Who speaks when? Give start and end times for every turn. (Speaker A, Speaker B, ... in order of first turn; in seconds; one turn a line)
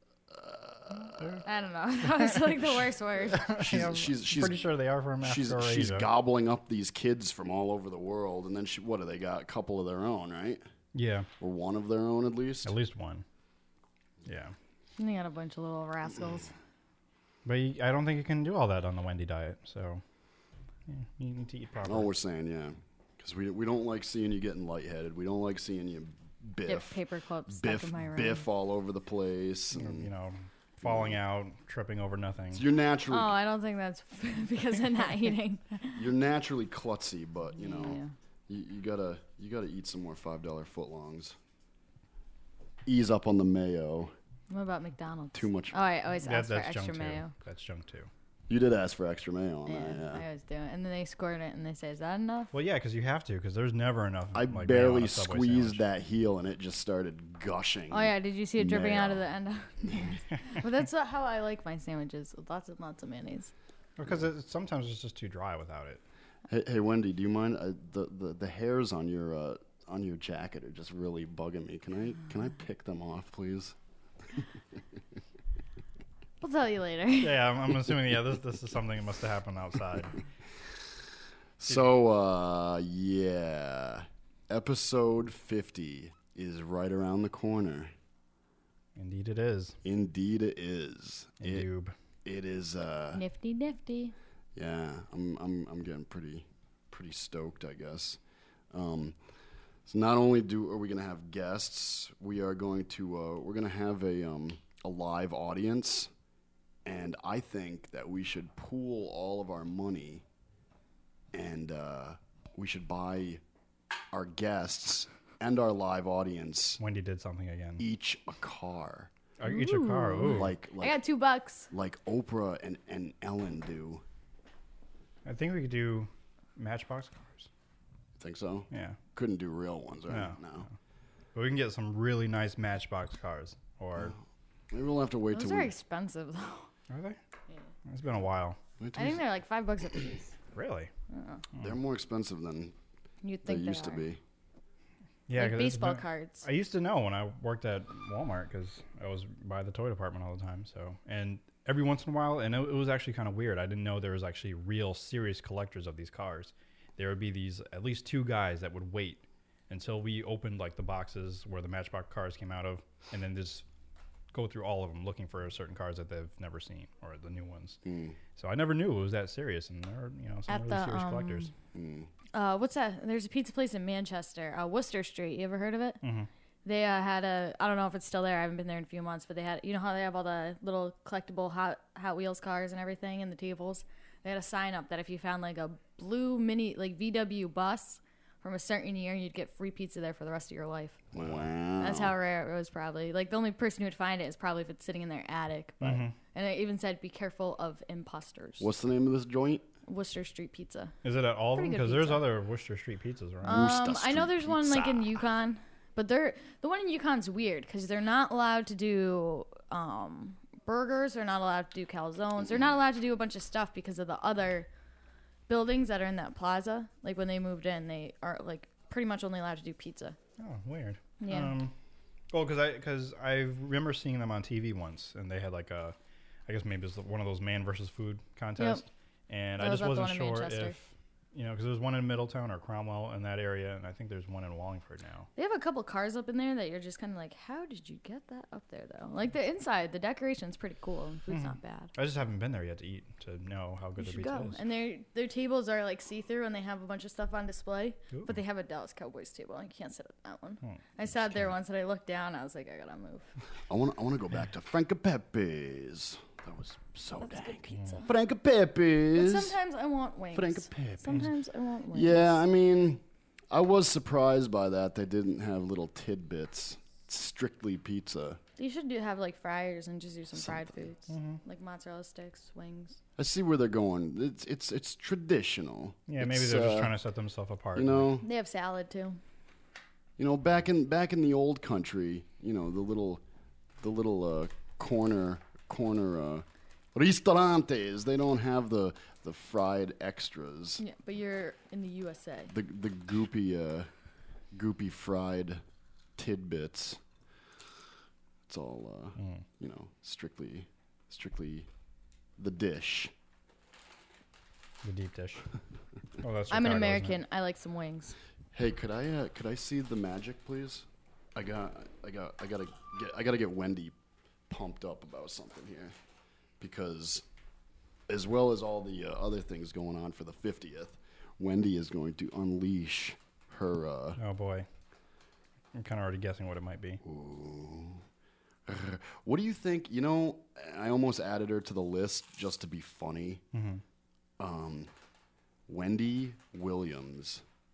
Speaker A: 0.3-1.4
Speaker B: 1.2-1.4
Speaker C: 1.4-3.7
Speaker B: 2.1-2.6
Speaker A: 3.2-4.7
Speaker B: 3.3-6.1
Speaker A: 5.2-10.6
Speaker B: 10.9-11.3
Speaker A: 11.4-12.7
Speaker B: 12.6-13.2
Speaker B: 14.2-14.5
Speaker C: 15.0-16.5
Speaker B: 17.4-20.0
Speaker B: 20.9-22.1
Speaker A: 21.8-30.1
Speaker C: 26.6-28.5
Speaker B: 29.7-32.6
Speaker A: 30.8-31.2
Speaker A: 32.5-33.4
Speaker C: 33.1-36.0
Speaker A: 35.9-41.4
Speaker C: 37.5-38.1
Speaker A: 42.9-44.1
Speaker C: 44.5-47.3
Speaker A: 45.3-45.8
Speaker B: 46.2-48.1
Speaker A: 48.5-50.2
Speaker C: 49.7-52.5
Speaker B: 52.5-55.8
Speaker A: 54.3-59.2
Speaker C: 57.9-63.5
Speaker B: 64.0-66.0
Speaker A: 66.5-73.8
Speaker C: 76.4-77.4
Speaker B: 77.2-80.2
Speaker A: 81.6-87.9
Speaker B: 89.0-89.8
Speaker A: 89.8-91.7
Speaker B: 91.4-91.9
Speaker A: 92.2-93.2
Speaker C: 93.1-94.1
Speaker A: 94.5-98.2
Speaker A: 98.7-99.2
Speaker A: 99.8-106.1
Speaker A: 106.8-110.2
Speaker A: 111.3-113.4
Speaker A: 114.1-116.8
Speaker B: 116.8-117.8
Speaker A: 117.8-119.1
Speaker B: 119.4-120.5
Speaker C: 119.4-121.7
Speaker A: 120.3-121.0
Speaker A: 121.7-124.0
Speaker B: 125.2-127.5
Speaker A: 128.2-130.7
Speaker B: 128.7-129.0
Speaker B: 130.1-130.7
Speaker B: 131.3-134.1
Speaker A: 134.7-135.7
Speaker C: 135.3-136.7
Speaker B: 136.9-137.2
Speaker B: 137.9-138.6
Speaker A: 138.8-139.3
Speaker C: 138.9-140.3
Speaker B: 140.5-140.9
Speaker C: 141.1-141.4
Speaker A: 141.6-142.7
Speaker C: 143.2-144.1
Speaker A: 143.4-144.2
Speaker B: 145.3-163.6
Speaker C: 145.3-146.4
Speaker B: 164.3-167.8
Speaker A: 167.8-168.2
Speaker B: 168.3-171.5
Speaker C: 170.5-171.5
Speaker A: 171.7-172.1
Speaker C: 172.3-176.0
Speaker B: 176.0-176.3
Speaker C: 176.6-191.0
Speaker A: 191.1-192.2
Speaker B: 191.2-191.5
Speaker C: 191.8-198.7
Speaker B: 195.8-196.1
Speaker A: 198.6-199.7
Speaker C: 199.8-201.0
Speaker B: 201.0-203.6
Speaker C: 201.5-202.2
Speaker C: 203.4-214.7
Speaker A: 203.4-205.2
Speaker A: 212.4-212.7
Speaker C: 215.5-220.2
Speaker B: 220.4-221.7
Speaker C: 221.2-221.5
Speaker B: 222.3-225.9
Speaker B: 226.5-235.3
Speaker C: 228.6-228.8
Speaker C: 229.6-230.8
Speaker C: 235.4-241.9
Speaker B: 241.3-244.6
Speaker C: 244.0-253.3
Speaker B: 250.6-251.5
Speaker A: 253.7-259.6
Speaker C: 257.2-258.0
Speaker C: 259.1-262.4
Speaker A: 260.3-261.2
Speaker A: 261.9-268.4
Speaker C: 268.6-273.0
Speaker B: 271.1-271.4
Speaker A: 273.2-276.9
Speaker B: 276.1-278.1
Speaker A: 277.7-278.2
Speaker C: 278.2-279.2
Speaker A: 280.2-283.2
Speaker A: 283.8-290.8
Speaker C: 290.8-292.5
Speaker A: 292.5-293.9
Speaker A: 294.5-295.6
Speaker A: 296.2-297.0
Speaker A: 298.5-301.7
Speaker B: 299.2-299.4
Speaker A: 302.4-303.1
Speaker B: 304.8-305.4
Speaker B: 306.2-307.2
Speaker C: 306.5-308.1
Speaker A: 308.5-313.9
Speaker A: 314.5-315.9
Speaker A: 316.6-317.2
Speaker A: 318.1-324.2
Speaker B: 324.2-324.6
Speaker B: 325.7-327.0
Speaker A: 327.0-328.0
Speaker A: 328.6-333.4
Speaker B: 333.5-333.8
Speaker A: 334.4-334.9
Speaker A: 335.7-337.4